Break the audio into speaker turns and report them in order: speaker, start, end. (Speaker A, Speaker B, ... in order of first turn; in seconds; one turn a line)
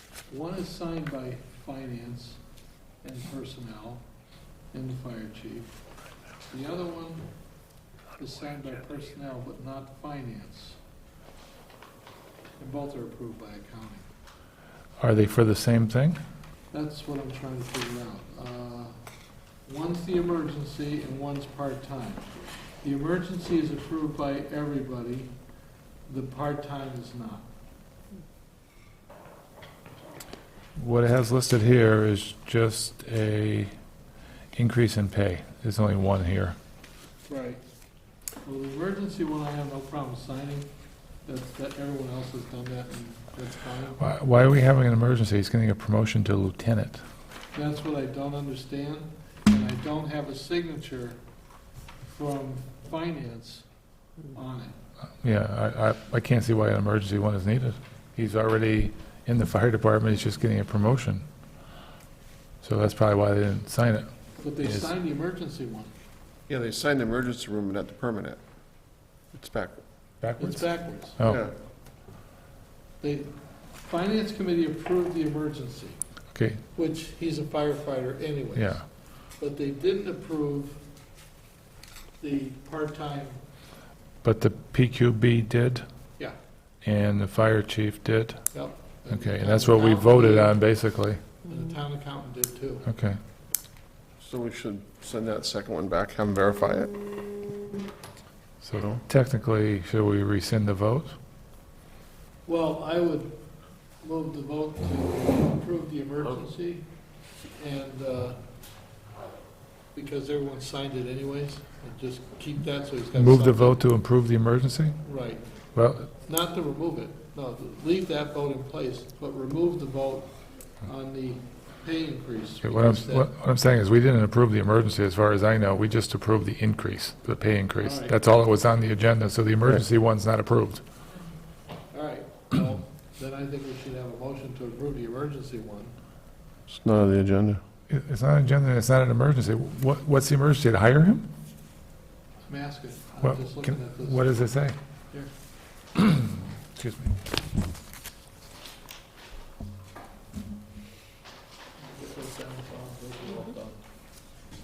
Speaker A: 0.3-2.4
Speaker A: 3.0-4.1
Speaker A: 4.7-5.8
Speaker A: 6.5-7.3
Speaker A: 8.2-10.8
Speaker A: 12.6-14.1
Speaker B: 15.0-16.2
Speaker A: 16.7-19.0
Speaker A: 19.6-25.3
Speaker A: 26.1-27.5
Speaker B: 30.8-33.7
Speaker B: 34.5-36.6
Speaker A: 37.3-37.6
Speaker A: 38.4-40.7
Speaker A: 41.2-44.1
Speaker B: 44.0-47.0
Speaker A: 47.5-51.2
Speaker A: 52.0-53.7
Speaker A: 54.3-54.8
Speaker B: 55.2-61.2
Speaker B: 62.6-64.9
Speaker A: 64.3-65.9
Speaker C: 66.5-68.4
Speaker C: 69.3-69.8
Speaker B: 70.2-71.4
Speaker A: 70.4-71.2
Speaker C: 71.2-71.5
Speaker A: 73.0-76.0
Speaker B: 76.3-76.6
Speaker A: 76.7-80.8
Speaker B: 78.6-78.8
Speaker A: 82.2-83.4
Speaker B: 84.2-85.8
Speaker B: 86.8-91.2
Speaker A: 88.5-90.7
Speaker A: 91.5-92.9
Speaker B: 92.9-93.2
Speaker C: 94.2-96.9
Speaker B: 98.6-101.1
Speaker C: 98.7-99.0
Speaker A: 102.5-103.4
Speaker A: 104.0-106.9
Speaker A: 107.5-108.5
Speaker A: 109.9-113.9
Speaker B: 113.2-115.0
Speaker A: 115.0-123.3
Speaker B: 115.8-116.1
Speaker B: 122.6-130.8
Speaker A: 127.8-128.2
Speaker A: 131.9-136.0
Speaker C: 136.7-137.6
Speaker B: 137.9-141.3
Speaker A: 142.5-144.4
Speaker B: 143.2-144.8
Speaker B: 146.0-147.1
Speaker A: 151.8-153.8